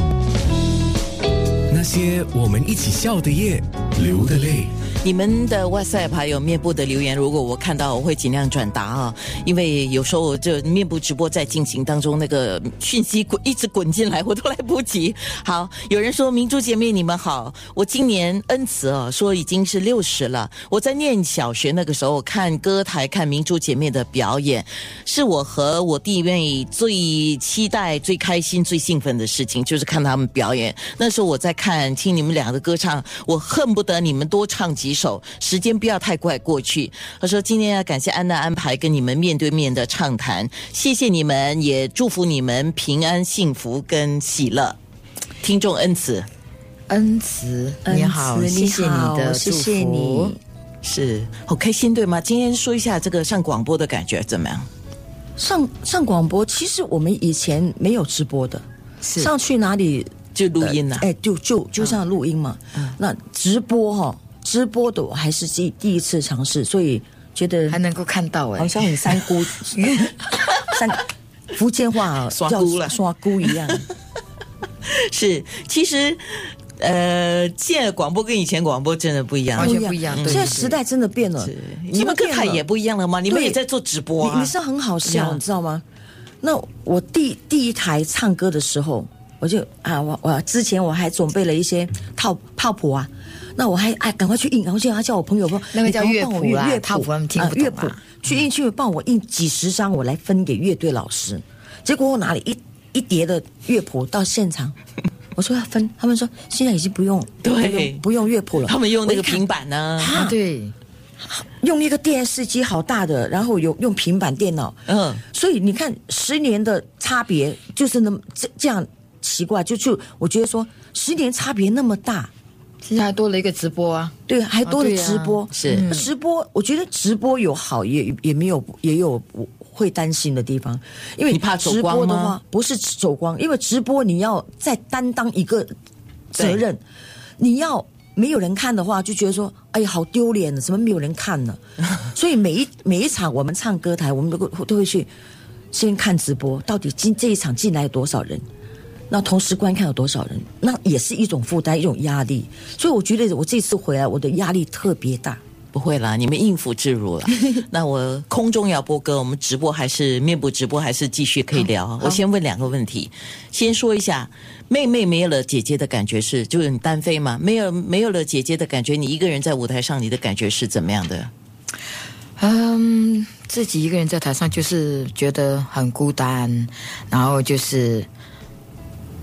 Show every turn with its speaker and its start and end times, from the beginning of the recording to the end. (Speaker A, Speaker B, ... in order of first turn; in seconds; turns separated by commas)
Speaker A: 1.7-4.7, Speaker B: 5.0-44.8, Speaker B: 45.4-46.3, Speaker C: 46.9-50.4, Speaker D: 47.9-50.4, Speaker B: 50.8-54.7, Speaker D: 55.4-58.6, Speaker C: 59.0-59.3, Speaker D: 59.2-67.8, Speaker B: 60.3-61.1, Speaker C: 67.7-69.0, Speaker D: 68.6-70.1, Speaker D: 70.6-73.9, Speaker B: 72.3-73.0, Speaker B: 74.8-80.5, Speaker C: 79.5-80.8, Speaker D: 79.6-82.6, Speaker B: 81.4-84.5, Speaker D: 83.3-83.6, Speaker D: 84.2-85.8, Speaker B: 85.0-85.4, Speaker D: 86.4-104.8, Speaker C: 95.7-98.0, Speaker D: 105.4-109.4, Speaker B: 107.4-108.0, Speaker B: 108.7-110.2, Speaker D: 110.0-110.4, Speaker C: 110.2-110.8, Speaker D: 111.2-122.3, Speaker B: 114.9-115.2, Speaker C: 122.8-126.1, Speaker D: 124.3-135.7, Speaker B: 125.5-125.8, Speaker B: 131.3-132.4, Speaker D: 136.3-136.8, Speaker D: 137.4-145.1, Speaker D: 145.7-148.4, Speaker D: 149.1-155.4, Speaker B: 155.7-171.3, Speaker D: 161.6-162.2, Speaker C: 172.4-178.1